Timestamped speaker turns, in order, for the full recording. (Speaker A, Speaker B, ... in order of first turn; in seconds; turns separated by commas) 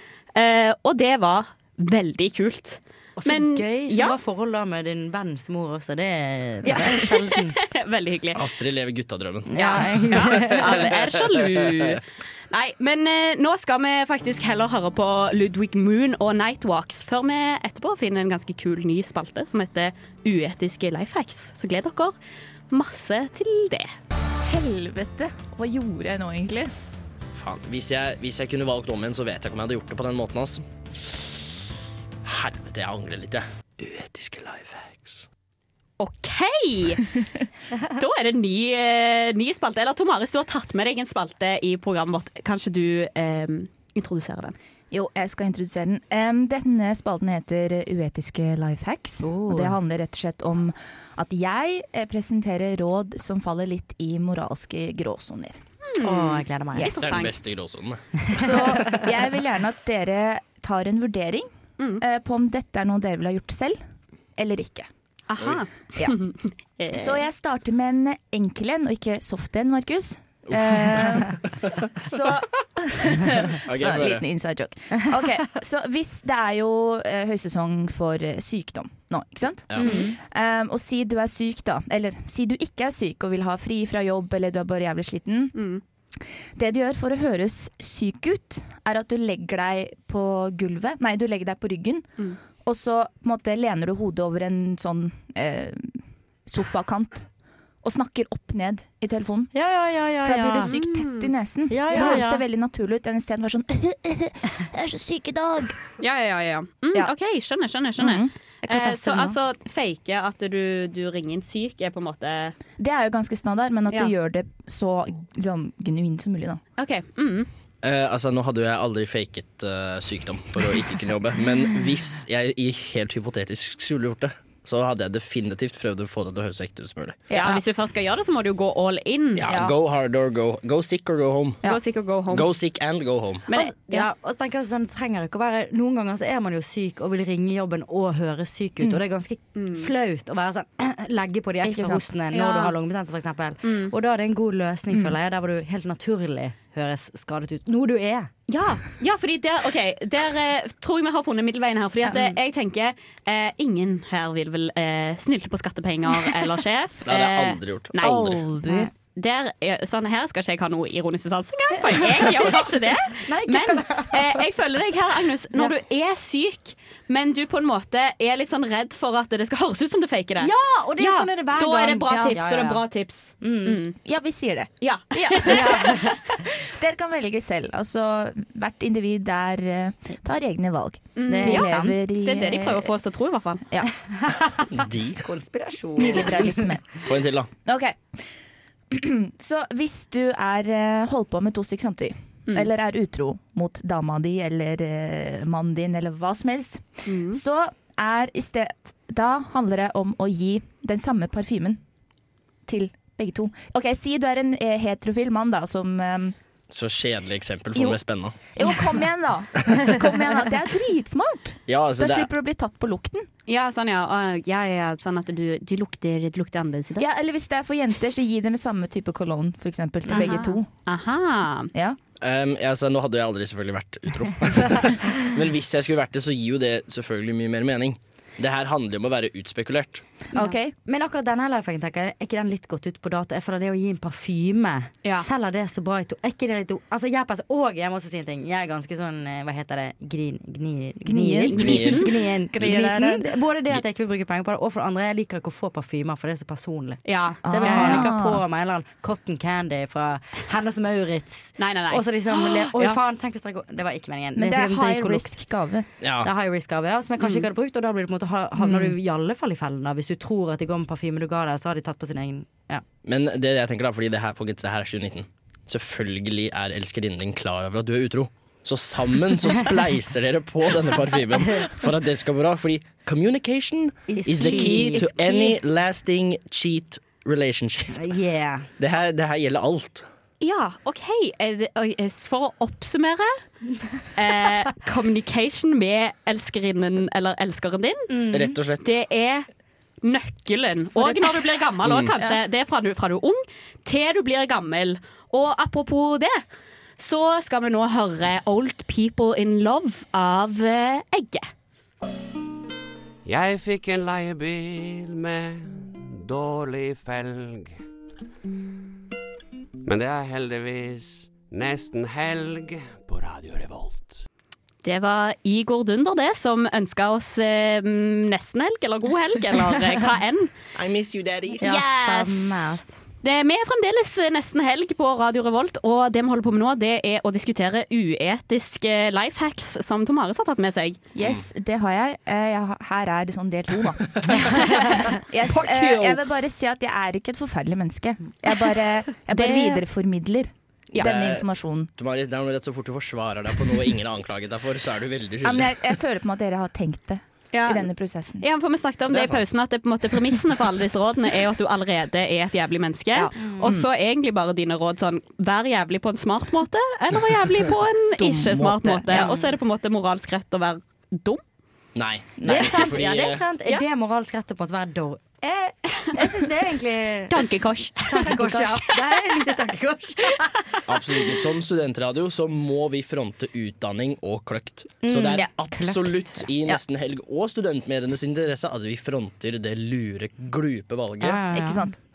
Speaker A: 0.3-4.2, Speaker B: 3.1-7.6, Speaker A: 6.6-8.4, Speaker C: 8.3-9.5, Speaker B: 9.5-10.9, Speaker A: 9.6-22.1, Speaker C: 10.1-11.9, Speaker A: 22.7-23.9, Speaker D: 24.4-26.7, Speaker C: 27.3-30.6, Speaker C: 32.2-35.3, Speaker A: 36.0-37.0, Speaker A: 38.0-44.5, Speaker D: 44.9-55.6, Speaker B: 49.2-49.8, Speaker A: 55.9-57.5, Speaker B: 56.0-57.0, Speaker D: 56.8-57.1, Speaker C: 57.0-58.0, Speaker B: 58.3-59.1, Speaker D: 58.3-63.8, Speaker D: 64.4-64.9, Speaker A: 65.3-67.2, Speaker D: 66.9-71.4, Speaker C: 70.5-71.8, Speaker D: 72.0-85.5, Speaker C: 73.6-74.2, Speaker C: 79.7-80.0, Speaker B: 79.8-80.2, Speaker A: 85.5-85.8, Speaker D: 86.5-92.1, Speaker D: 92.6-97.3, Speaker D: 97.8-99.5, Speaker B: 99.5-100.7, Speaker D: 100.2-105.8, Speaker A: 100.6-101.3, Speaker B: 101.7-102.4, Speaker A: 101.9-102.2, Speaker A: 106.0-112.5, Speaker D: 108.0-109.2, Speaker B: 108.8-109.3, Speaker D: 112.8-116.6, Speaker A: 116.8-117.5, Speaker C: 117.8-127.2, Speaker D: 127.3-127.6, Speaker A: 127.3-129.5, Speaker C: 129.3-131.6, Speaker D: 129.5-129.7, Speaker A: 131.6-132.5, Speaker C: 132.3-133.5, Speaker A: 133.5-134.0, Speaker B: 133.7-148.3, Speaker A: 139.5-139.9, Speaker D: 141.6-142.1, Speaker A: 142.3-142.7, Speaker A: 143.6-143.9, Speaker A: 148.5-173.9, Speaker B: 152.1-152.3, Speaker C: 157.0-158.4, Speaker D: 158.6-158.9, Speaker B: 162.0-164.4, Speaker B: 170.4-172.8, Speaker B: 173.4-173.9, Speaker D: 174.0-175.9, Speaker A: 174.8-176.0, Speaker B: 175.4-176.1, Speaker D: 176.7-182.9, Speaker A: 181.2-183.6, Speaker B: 181.3-182.0, Speaker C: 184.7-185.2, Speaker B: 185.2-186.7, Speaker D: 186.0-186.8, Speaker C: 187.0-187.5, Speaker D: 187.6-188.1, Speaker D: 188.9-201.8, Speaker A: 197.1-197.4, Speaker D: 202.7-206.3, Speaker C: 206.7-208.3, Speaker D: 207.7-208.0, Speaker D: 208.5-213.3, Speaker C: 211.7-212.3, Speaker A: 213.5-217.1, Speaker D: 217.0-220.7, Speaker A: 220.1-221.7, Speaker C: 222.2-230.0, Speaker D: 230.3-230.7, Speaker B: 230.4-255.4, Speaker D: 241.0-243.3, Speaker A: 241.5-242.1, Speaker C: 241.6-242.0, Speaker A: 247.0-248.1, Speaker D: 247.4-248.4, Speaker A: 251.6-253.0, Speaker D: 254.3-255.9, Speaker C: 256.0-256.3, Speaker B: 256.2-262.8, Speaker A: 257.2-257.5, Speaker D: 258.6-258.9, Speaker C: 263.0-278.0, Speaker B: 274.1-275.3, Speaker D: 274.2-275.5, Speaker B: 277.9-278.7, Speaker C: 278.8-280.1, Speaker A: 280.4-283.4, Speaker A: 284.1-288.1, Speaker B: 288.1-288.6, Speaker C: 288.3-288.9, Speaker A: 288.8-289.5, Speaker A: 290.0-296.4, Speaker C: 291.8-292.1, Speaker A: 297.0-301.5, Speaker E: 303.2-307.8, Speaker E: 309.8-314.2, Speaker A: 314.8-320.5, Speaker C: 320.7-321.6, Speaker B: 321.6-323.0, Speaker A: 321.6-331.0, Speaker D: 331.1-341.9, Speaker A: 334.5-336.2, Speaker A: 339.3-339.8, Speaker C: 340.9-345.8, Speaker D: 345.4-348.4, Speaker A: 347.5-347.9, Speaker A: 348.4-361.4, Speaker C: 349.1-349.4, Speaker D: 353.1-353.8, Speaker D: 358.2-359.4, Speaker C: 361.9-363.4, Speaker B: 362.4-367.5, Speaker D: 362.4-362.9, Speaker A: 367.3-368.5, Speaker B: 368.0-370.5, Speaker D: 368.2-368.8, Speaker C: 370.9-381.4, Speaker B: 375.0-376.4, Speaker B: 381.2-381.9, Speaker D: 381.5-381.9